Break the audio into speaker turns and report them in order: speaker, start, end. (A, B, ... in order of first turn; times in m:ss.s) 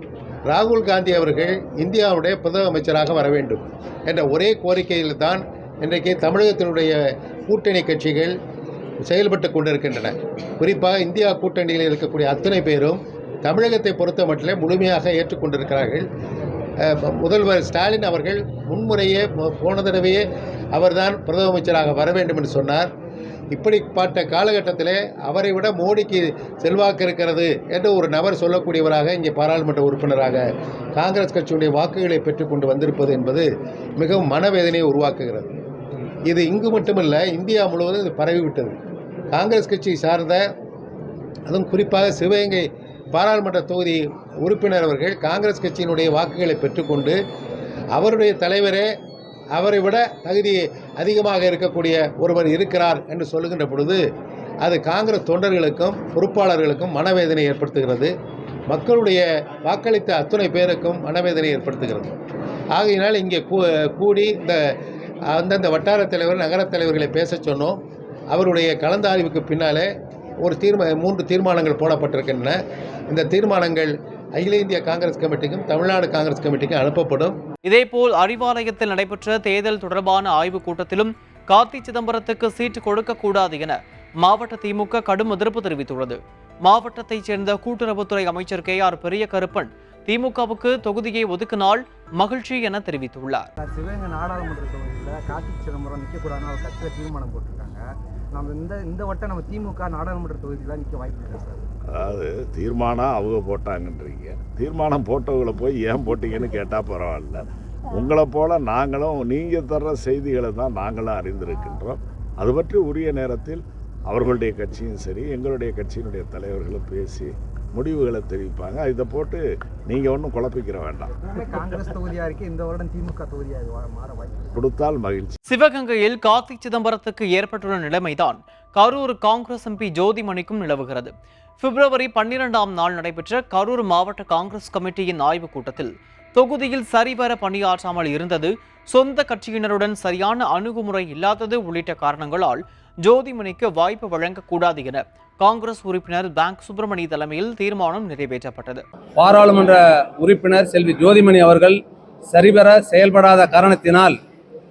0:00.5-0:07.0 A
0:07.5-0:08.4 A
0:09.0-0:16.1 A
0:16.8-0:22.9 A
0:23.5-0:30.4 A
0:31.0-0:35.5 A
0:36.3-0:38.8 A
0:39.3-0:40.4 A
0:41.5-0:47.2 A
0:47.9-0:48.9 A
0:49.5-0:54.0 A
0:54.6-0:58.1 A
0:58.7-1:02.1 A
1:02.7-1:04.6 A
1:05.3-1:07.8 A
1:08.3-1:09.9 A
1:10.4-1:12.6 A
1:13.1-1:17.4 A
1:17.7-1:33.5 B
1:33.6-1:41.7 C
1:41.9-2:01.1 D
2:01.2-2:04.5 C
2:04.5-2:05.4 D
2:05.5-2:28.8 B
2:29.2-2:34.2 E